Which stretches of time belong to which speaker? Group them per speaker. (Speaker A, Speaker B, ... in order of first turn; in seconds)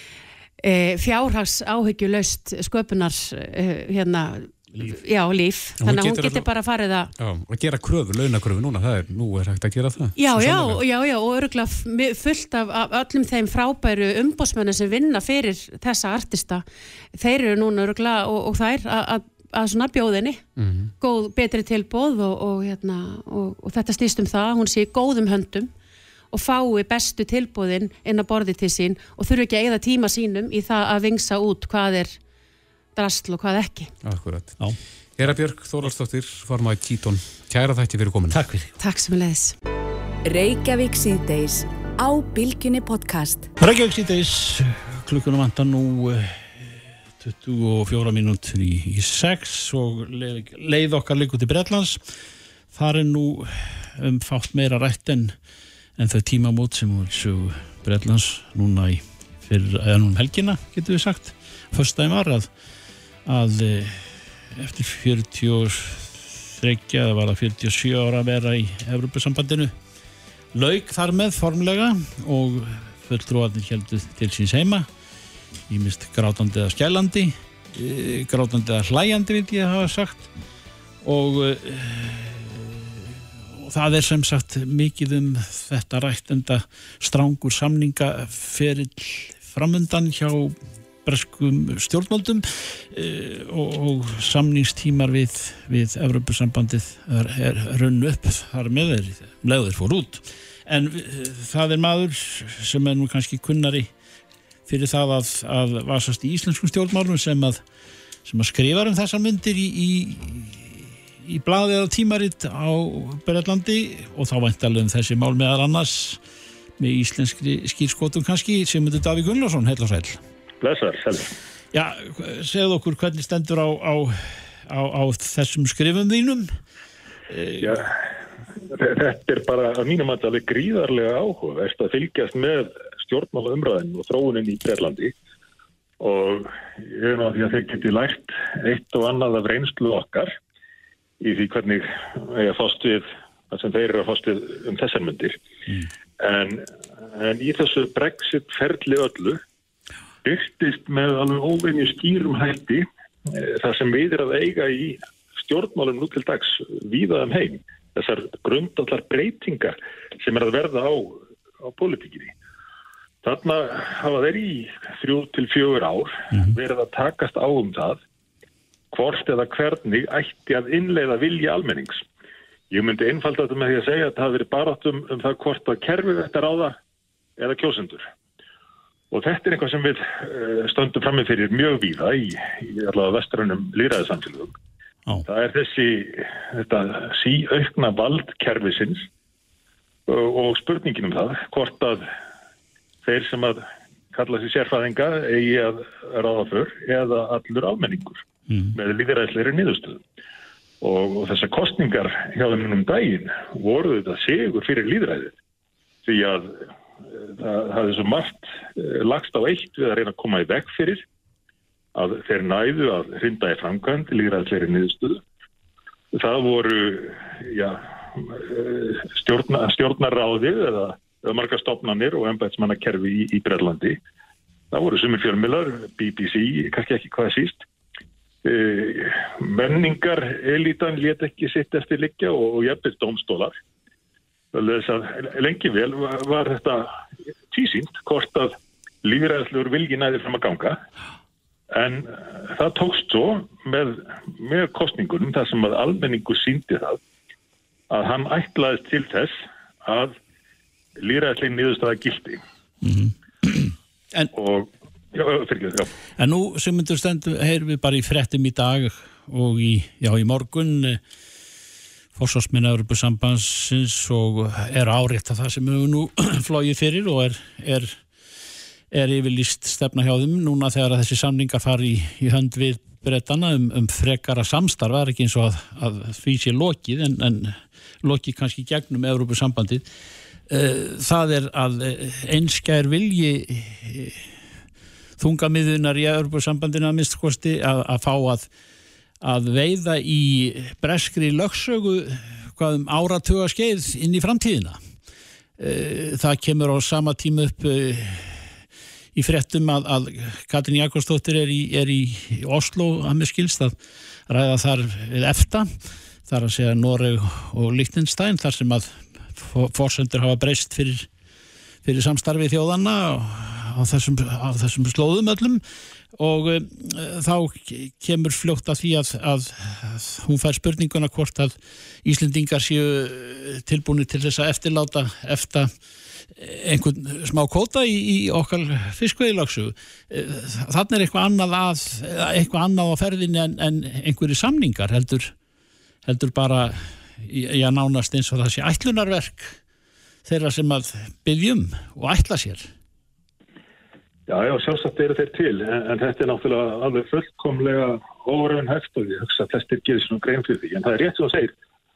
Speaker A: 0.6-7.1, 10.2-20.4, 21.0-25.7, 26.3-32.2, 32.9-33.9, 38.8-39.5
Speaker B: 5.8-6.5, 7.2-10.8, 20.6-20.9, 34.0-38.4
Speaker C: 38.3-38.7, 43.6-52.0, 52.7-55.3, 56.0-62.5, 63.2-69.7, 70.5-74.9, 75.7-80.3, 81.0-83.0, 83.6-103.9, 104.7-107.6, 108.2-116.2, 116.8-120.2, 121.7-126.5, 127.3-127.7, 198.5-198.7, 252.8-254.3, 256.2-261.0, 262.1-268.1, 268.9-279.9, 280.5-284.3, 285.2-288.5, 289.2-294.8, 295.6-298.5, 299.1-303.8, 304.3-311.1, 311.8-315.6, 316.1-325.7, 326.3-335.3, 336.0-339.6, 340.2-342.7
Speaker D: 40.2-43.5
Speaker E: 120.6-121.3, 127.6-128.0, 128.7-135.1, 136.0-140.3, 141.2-145.4, 146.2-149.4, 150.2-162.3, 163.2-168.0, 168.9-172.0, 172.7-176.8, 177.4-178.1, 179.1-184.5, 185.2-189.1, 190.1-192.1, 193.0-200.0, 200.8-205.3, 206.0-211.0, 211.9-215.2, 216.1-224.0, 224.7-227.6, 228.4-233.5, 234.5-236.9, 237.5-240.8, 241.7-247.0, 247.9-250.2, 251.0-252.4, 254.3-255.9, 344.3-351.5